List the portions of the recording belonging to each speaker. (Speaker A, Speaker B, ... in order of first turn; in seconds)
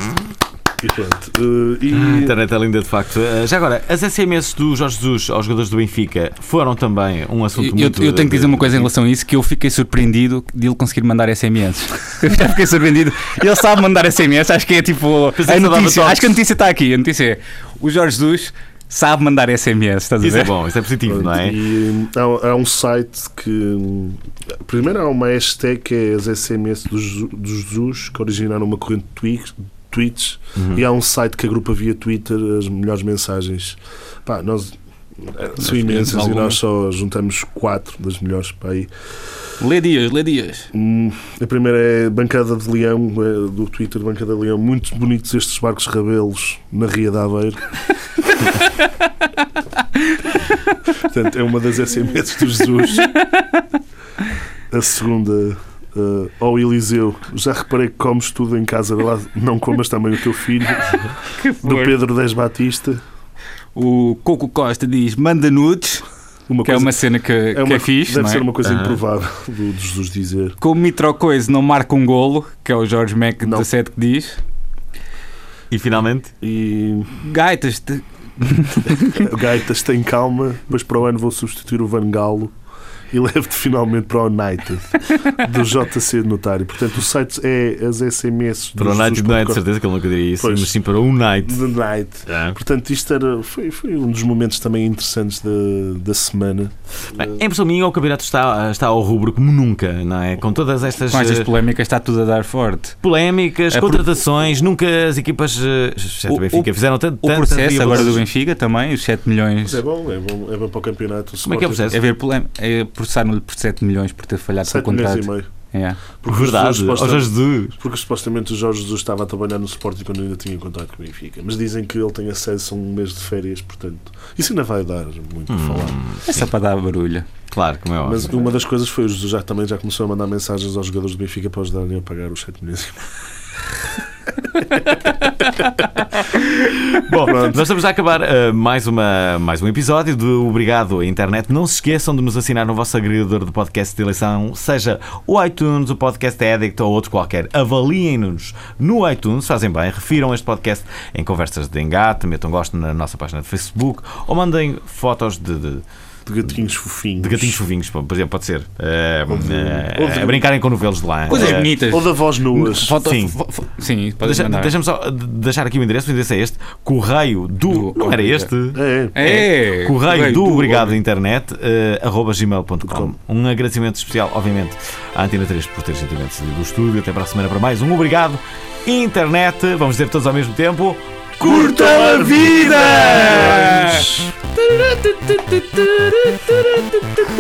Speaker A: 0.8-2.4, 21.1-38.9, 40.7-47.7, 51.0-53.1, 54.7-61.1, 61.6-63.0, 66.5-67.0, 67.5-70.6, 73.4-73.7, 76.4-77.1, 79.2-82.5, 83.1-89.6, 90.4-90.7, 91.4-97.4, 107.9-108.2, 109.6-112.0, 114.7-115.5, 116.2-126.0, 128.0-133.1, 137.2-137.7, 156.3-157.6, 159.3-160.4, 161.3-163.0, 168.8-169.2, 172.9-173.1, 181.4-184.3
Speaker B: 1.9-8.9, 15.4-16.4, 20.2-21.6, 30.6-30.8, 68.6-69.0, 75.7-76.3, 88.8-91.6, 92.3-92.6, 97.1-101.5, 103.0-108.2, 111.5-112.0, 116.3-117.8, 125.5-126.5, 127.5-128.4, 136.4-155.8, 157.2-161.7, 163.0-163.3, 164.2-183.7, 184.8-185.1, 186.2-187.0
Speaker C: 7.6-20.5, 35.6-36.6, 39.6-40.7, 53.0-53.6, 61.2-62.0, 63.8-66.0, 66.6-68.5, 70.6-74.4, 77.1-79.3, 101.1-103.0, 103.7-104.1, 106.3-106.7, 107.2-109.8, 111.9-116.0, 126.3-127.3, 161.3-164.7, 167.7-168.5, 169.1-170.9, 181.4-184.1